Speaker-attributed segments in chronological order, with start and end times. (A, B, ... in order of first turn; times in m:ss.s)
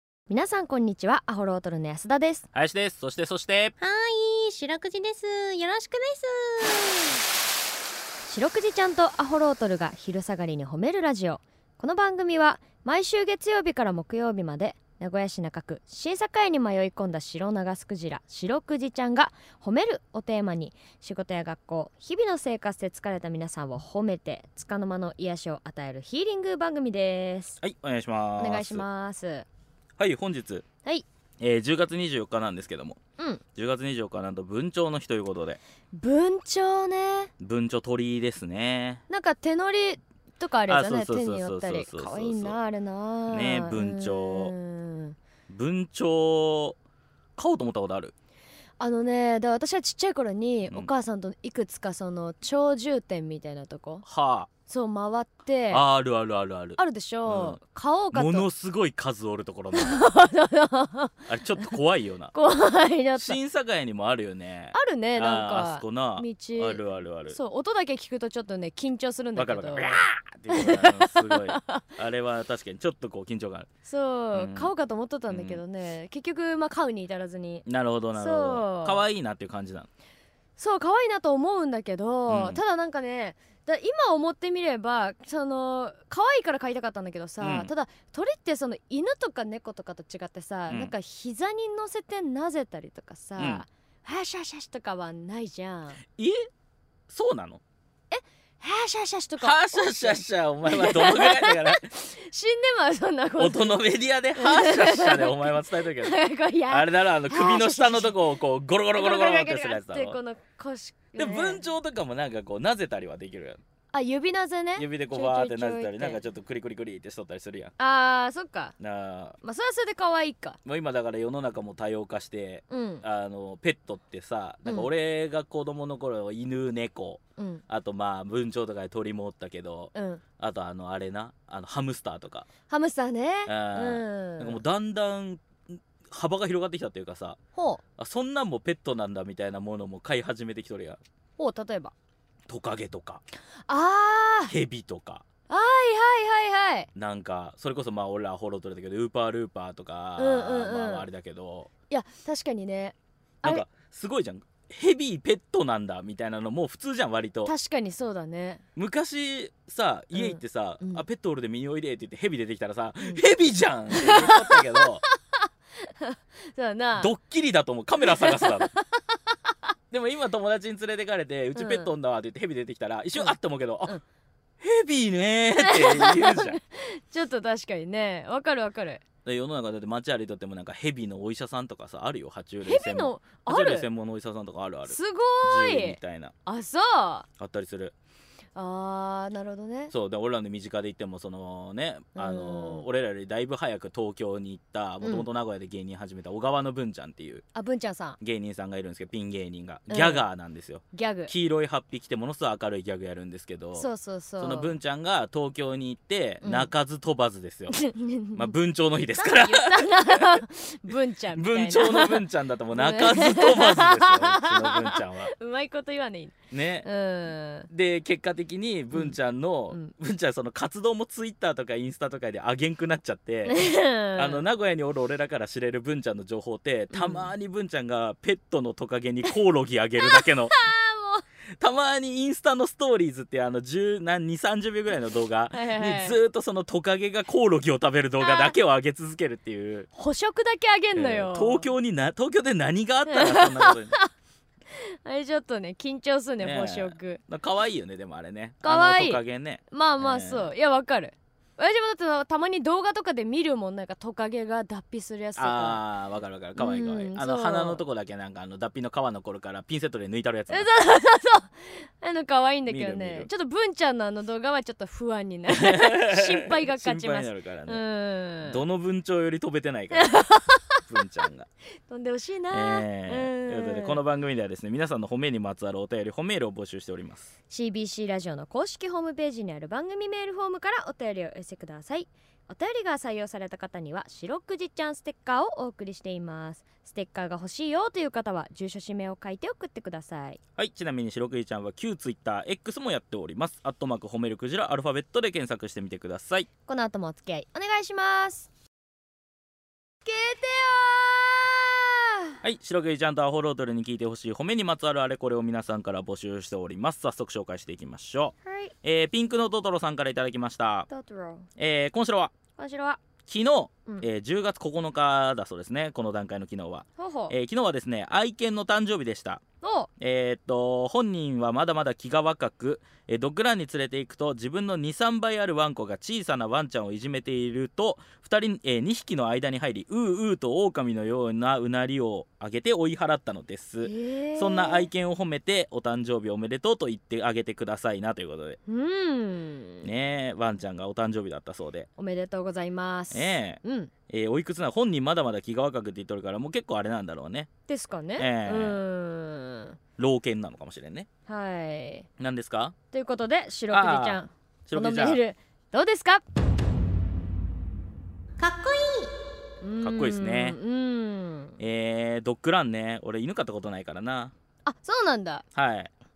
0:00.3-0:02.5 A
0:02.5-0:03.7 B
0:03.8-0:07.1 C
0:08.3-0:27.6 A
0:27.6-0:28.9 B
0:28.4-0:29.5 A
0:30.0-0:30.6 B
0:31.4-0:33.0 B
0:33.6-0:35.6 B
0:35.9-0:37.3 A
0:37.4-0:39.0 B
0:39.1-0:45.2 A
0:40.7-0:42.6 B
0:43.3-0:44.5 B
0:45.5-0:46.8 B
0:47.4-0:48.1 B
0:48.8-0:54.0 A
0:54.0-0:54.5 B
0:54.7-0:55.8 A
0:55.7-0:57.6 B
0:56.8-0:58.5 A
0:58.1-1:00.0 B
0:59.7-1:01.2 A
1:01.3-1:02.3 B
1:02.3-1:03.4 A
1:03.2-1:07.4 B
1:04.7-1:11.8 A
1:09.4-1:13.7 B
1:13.8-1:19.0 A
1:14.3-1:14.7 B
1:15.3-1:15.6 B
1:17.7-1:19.9 B
1:20.6-1:36.0 A
1:22.3-1:22.6 B
1:27.4-1:27.7 B
1:30.7-1:30.9 B
1:33.4-1:33.6 B
1:36.2-1:36.5 B
1:37.1-1:37.6 B
1:38.1-1:43.8 A
1:39.4-1:41.8 B
1:43.4-1:50.2 B
1:44.4-1:48.2 A
1:48.9-1:51.6 A
1:51.2-1:53.6 B
1:53.9-1:56.2 A
1:54.8-1:57.7 B
1:57.8-1:58.8 A
1:58.8-1:59.4 B
1:59.4-2:00.6 A
2:00.6-2:12.5 B
2:02.7-2:03.0 A
2:07.4-2:07.6 A
2:09.9-2:10.2 A
2:12.7-2:14.6 A
2:13.5-2:17.4 B
2:17.6-2:17.8 A
2:18.0-2:21.0 B
2:21.4-2:21.9 A
2:22.5-2:23.2 B
2:23.7-2:24.5 A
2:24.5-2:25.2 B
2:25.5-2:26.9 A
2:27.0-2:31.7 B
2:30.2-2:31.1 A
2:31.9-2:33.6 A
2:33.4-2:37.5 B
2:37.4-2:38.6 A
2:38.8-2:45.0 B
2:40.1-2:41.0 A
2:43.9-2:45.2 A
2:45.8-2:47.1 A
2:47.0-2:48.7 B
2:48.0-2:48.8 A
2:49.9-2:54.0 B
2:51.6-2:51.9 A
2:53.2-2:54.0 A
2:54.6-2:56.6 B
2:55.6-2:59.0 A
2:59.2-3:06.3 B
3:02.6-3:03.9 A
3:04.9-3:07.3 A
3:07.4-3:07.9 B
3:08.6-3:09.9 A
3:09.9-3:17.4 B
3:12.2-3:12.9 A
3:15.0-3:15.3 A
3:17.5-3:18.2 A
3:18.2-3:30.4 B
3:19.9-3:20.3 A
3:20.9-3:21.3 A
3:23.8-3:24.7 A
3:26.4-3:26.7 A
3:27.7-3:28.5 A
3:29.2-3:37.7 A
3:31.3-3:35.3 B
3:36.5-3:36.9 B
3:37.7-3:50.6 B
3:43.4-3:44.4 A
3:46.9-3:47.3 A
3:50.0-3:51.2 A
3:51.6-3:59.9 B
3:55.5-3:56.2 A
3:58.2-3:58.6 A
3:59.9-4:01.7 A
4:01.0-4:04.0 B
4:03.1-4:04.1 A
4:05.0-4:07.2 A
4:06.4-4:10.5 B
4:08.6-4:15.8 A
4:15.4-4:20.7 B
4:16.6-4:17.8 A
4:20.5-4:28.6 A
4:22.7-4:23.3 B
4:25.5-4:27.8 B
4:28.4-4:30.2 B
4:29.9-4:30.8 A
4:30.8-4:31.5 B
4:31.9-4:34.0 A
4:32.5-4:37.3 B
4:37.5-4:50.4 A
4:50.6-4:56.5 B
4:56.7-4:58.5 A
5:00.0-5:02.4 A
5:02.4-5:10.9 B
5:08.5-5:08.7 A
5:10.9-5:11.5 A
5:11.6-5:12.3 B
5:12.6-5:13.0 A
5:13.3-5:19.4 B
5:17.0-5:17.4 A
5:19.6-5:19.9 A
5:20.0-5:38.6 B
5:33.8-5:34.9 A
5:38.7-5:39.9 A
5:39.8-5:41.9 B
5:42.0-5:43.9 A
5:43.1-5:47.5 B
5:47.7-5:49.8 A
5:48.2-5:48.8 B
5:50.0-5:51.1 B
5:51.3-5:52.1 A
5:52.2-5:52.7 B
5:52.9-5:56.2 A
5:53.7-5:55.2 B
5:58.4-5:59.1 C
5:59.6-6:01.6 A
5:59.8-6:00.6 B
6:01.6-6:04.3 B
6:04.6-6:05.4 A
6:05.6-6:05.9 B